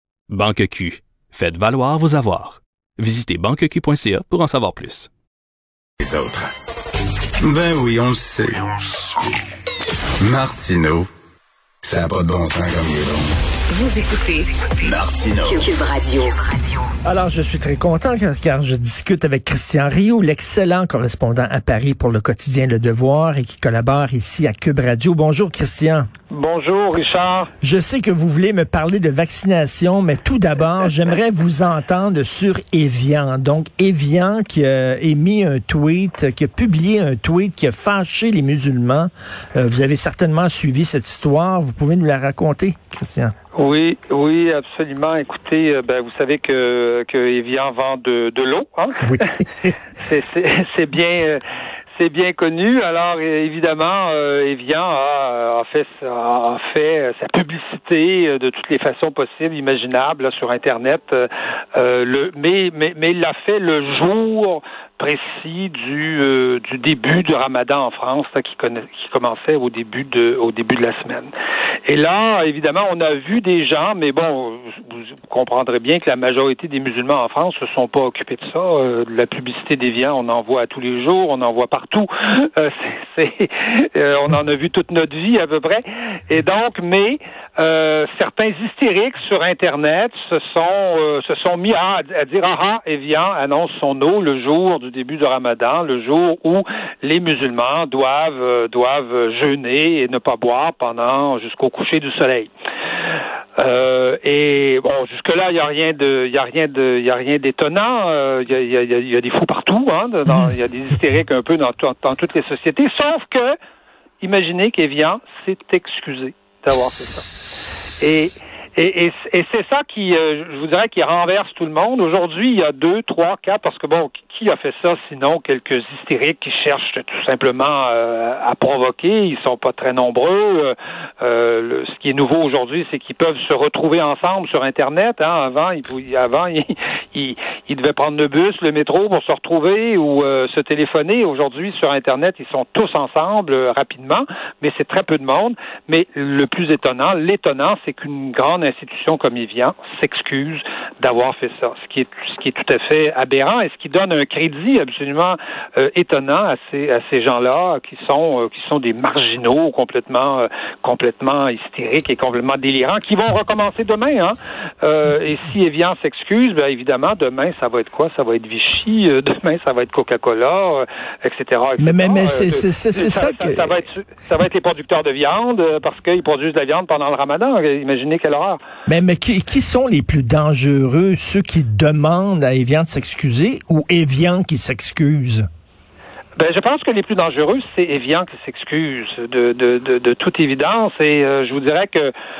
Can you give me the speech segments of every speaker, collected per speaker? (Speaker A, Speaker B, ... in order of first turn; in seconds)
Speaker A: 0.3-5.1
Speaker B: 6.0-6.5, 7.4-9.2, 10.2-11.1, 11.8-13.3, 14.8-15.6
Speaker C: 13.7-14.5, 15.5-16.9
Speaker D: 17.0-26.1, 27.6-43.3, 49.0-49.7, 171.8-173.8, 178.9-185.4
Speaker E: 26.3-27.5, 43.5-49.3, 50.0-51.4, 52.0-71.3, 71.8-102.5, 103.6-113.5, 114.2-117.3, 118.0-178.6, 186.3-192.1